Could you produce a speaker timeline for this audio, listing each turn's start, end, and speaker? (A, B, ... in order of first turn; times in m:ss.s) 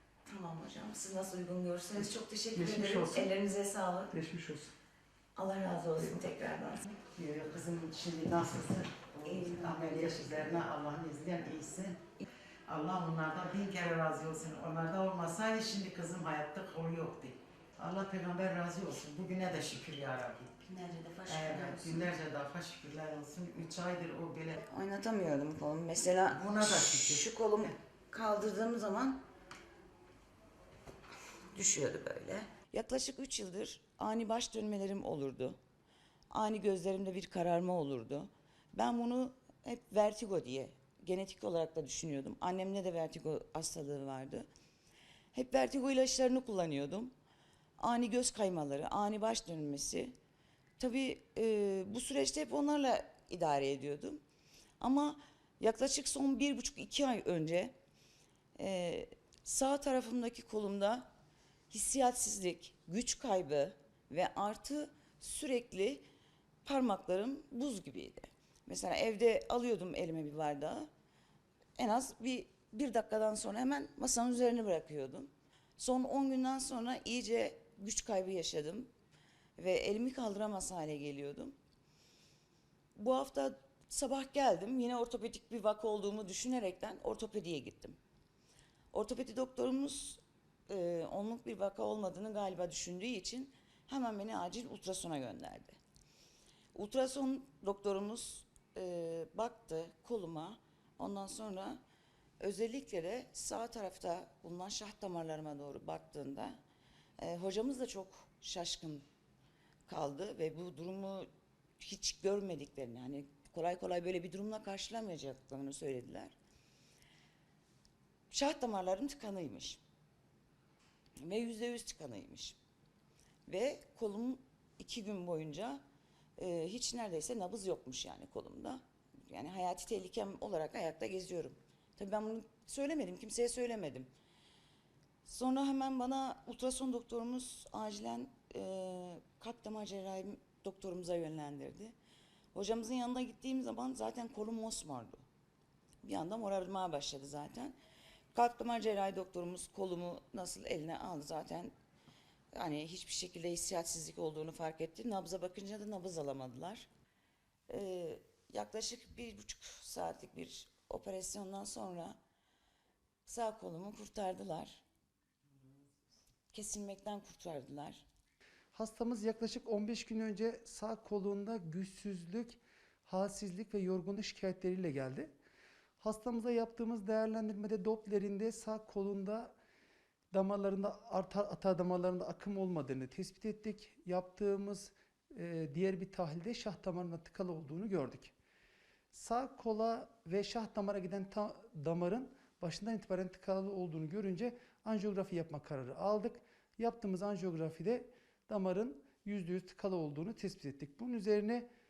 0:00.3-0:04.1 A
0:02.5-0:03.3 B
0:04.1-0:04.7 B
0:05.4-0:06.9 A
0:07.1-0:12.0 C
0:09.2-0:10.6 A
0:12.7-0:20.6 C
0:20.6-0:22.1 A
0:21.3-0:24.6 C
0:24.6-0:29.2 A
0:26.1-0:27.7 C
0:31.5-0:35.6 A
0:36.3-0:44.5 A
0:45.3-0:47.1 A
0:47.8-0:50.1 A
0:50.8-0:54.2 A
0:54.8-0:57.7 A
0:58.6-1:01.1 A
1:01.7-1:06.0 A
1:06.6-1:10.9 A
1:11.8-1:18.9 A
1:19.6-1:21.6 A
1:23.0-1:28.0 A
1:28.9-1:35.8 A
1:36.8-1:41.8 A
1:42.4-1:46.6 A
1:47.2-1:49.0 A
1:49.9-1:51.3 A
1:51.8-1:56.4 A
1:58.3-1:59.8 A
2:01.2-2:02.6 A
2:03.5-2:05.8 A
2:06.4-2:14.1 A
2:15.2-2:22.0 A
2:22.5-2:25.2 A
2:26.0-2:27.8 A
2:28.3-2:31.7 A
2:32.5-2:36.9 A
2:37.7-2:42.2 A
2:43.3-2:44.8 A
2:46.5-2:48.0 A
2:48.7-2:55.3 B
2:56.0-2:59.6 B
3:00.3-3:08.3 B
3:09.1-3:21.7 B